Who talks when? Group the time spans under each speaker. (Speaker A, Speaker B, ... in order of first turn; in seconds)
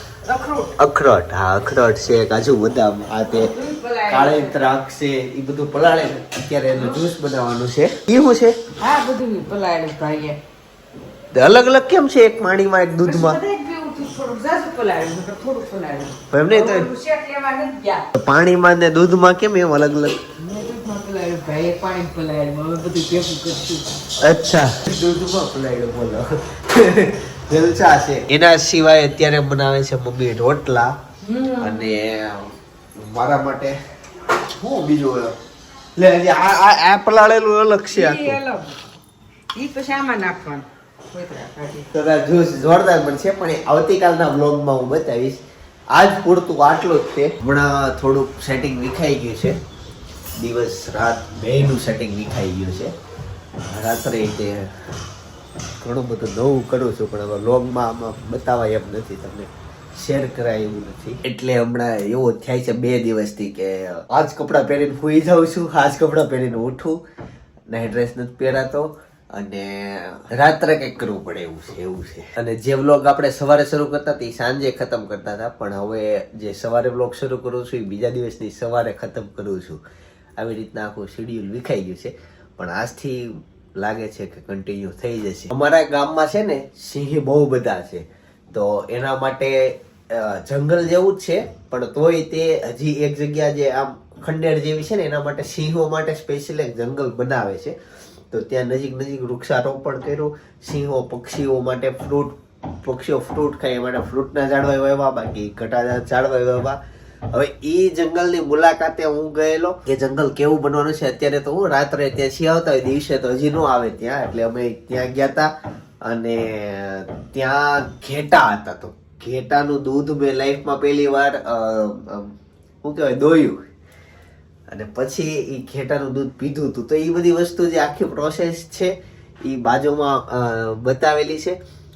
Speaker A: 0.2-0.7, 3.2-4.6, 8.8-10.4, 13.0-18.1, 20.4-23.9, 31.3-31.7, 37.9-38.8, 39.5-41.9
Speaker B: 0.8-3.6, 4.1-8.6, 11.3-13.4, 16.3-16.9, 18.1-20.2, 24.2-30.9, 31.6-33.8, 34.6-35.3, 36.0-38.4, 41.9-45.4, 45.9-49.6, 50.4-52.9, 53.6-54.7, 55.8-67.0, 67.7-79.8, 80.4-97.8, 98.3-106.8, 107.3-115.5, 116.0-123.6, 124.7-131.6